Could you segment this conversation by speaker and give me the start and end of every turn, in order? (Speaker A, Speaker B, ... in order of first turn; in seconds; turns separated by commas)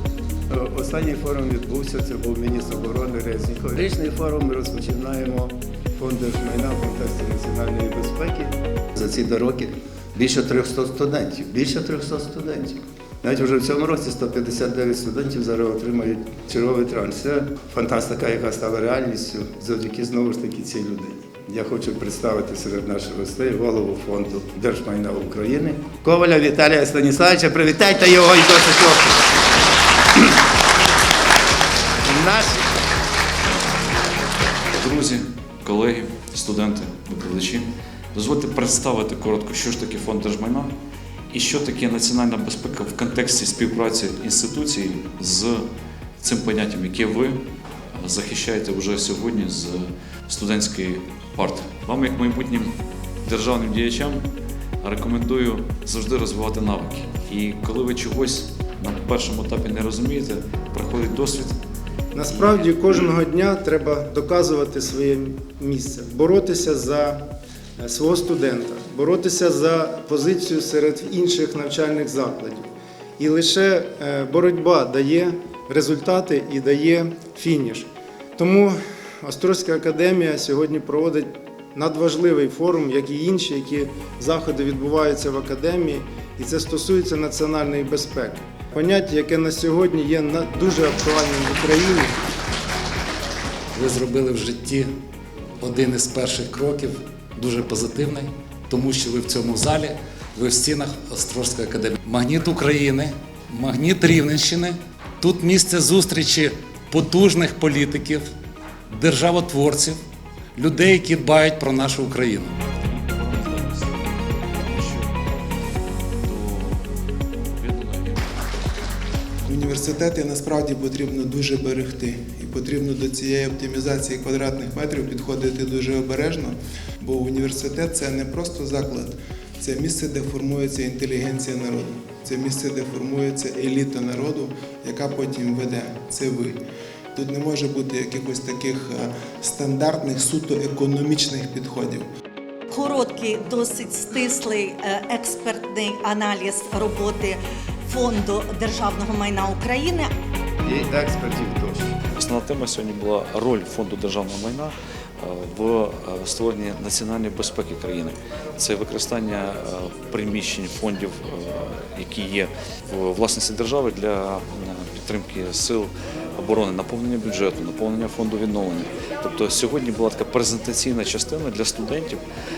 Speaker A: 0.5-29.3, Speaker A: 32.0-32.6, Speaker B: 34.7-40.7, Speaker B: 41.3-45.7, Speaker B: 46.2-47.4, Speaker B: 47.9-54.2, Speaker B: 54.8-61.5, Speaker C: 62.1-67.2, Speaker C: 67.8-92.1, Speaker D: 93.7-94.9, Speaker D: 95.6-108.2, Speaker D: 108.9-110.0, Speaker D: 110.5-112.5, Speaker B: 112.6-115.4, Speaker B: 116.2-116.8, Speaker B: 117.6-118.3, Speaker E: 119.4-136.6, Speaker E: 137.1-142.1, Speaker F: 142.7-150.1, Speaker A: 150.6-151.9, Speaker B: 152.2-172.2